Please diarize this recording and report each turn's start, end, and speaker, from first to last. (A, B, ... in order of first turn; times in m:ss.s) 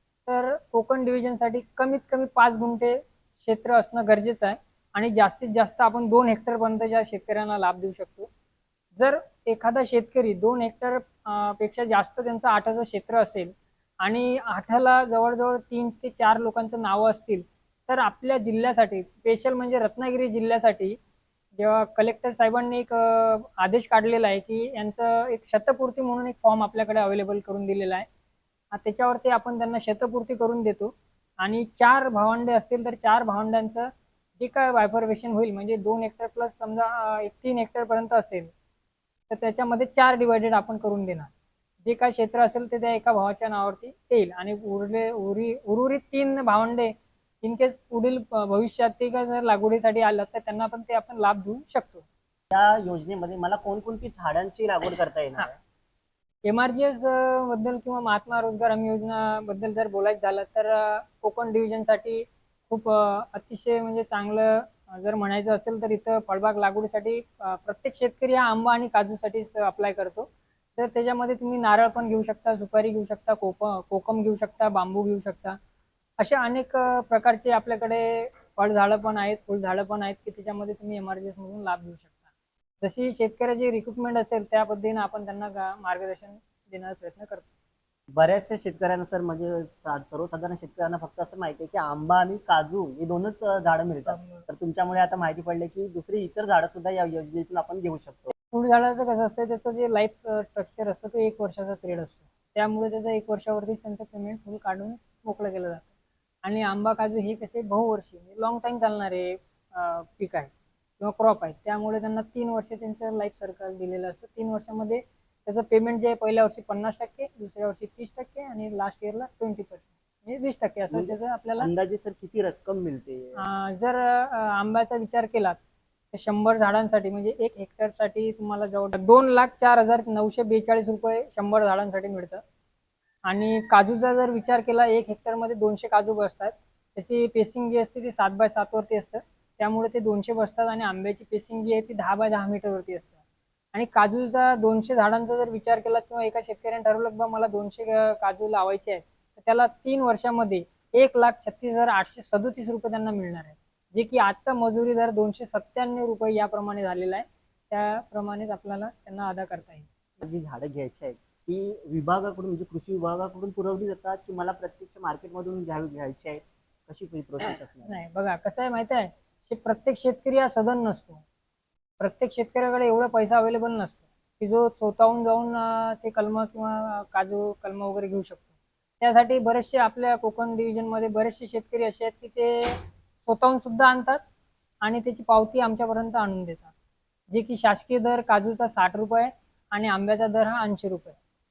0:00.2-0:08.3 A
0:09.0-0:21.0 A
0:21.6-0:28.0 A
0:28.7-0:38.5 A
0:39.3-0:41.3 A
0:41.8-0:52.0 A
0:52.5-0:55.5 B
0:56.4-1:15.6 A
1:16.2-1:22.1 A
1:22.8-1:27.4 A
1:28.2-1:38.3 B
1:34.1-1:34.4 A
1:38.5-1:45.8 A
1:46.4-2:01.7 A
2:00.9-2:03.4 B
2:03.4-2:05.6 A
2:06.1-2:12.4 A
2:13.2-2:23.2 A
2:23.7-2:39.9 A
2:40.2-2:47.9 B
2:47.8-2:51.2 A
2:52.0-2:58.4 A
2:59.0-3:04.2 A
3:04.8-3:06.7 A
3:07.3-3:11.2 A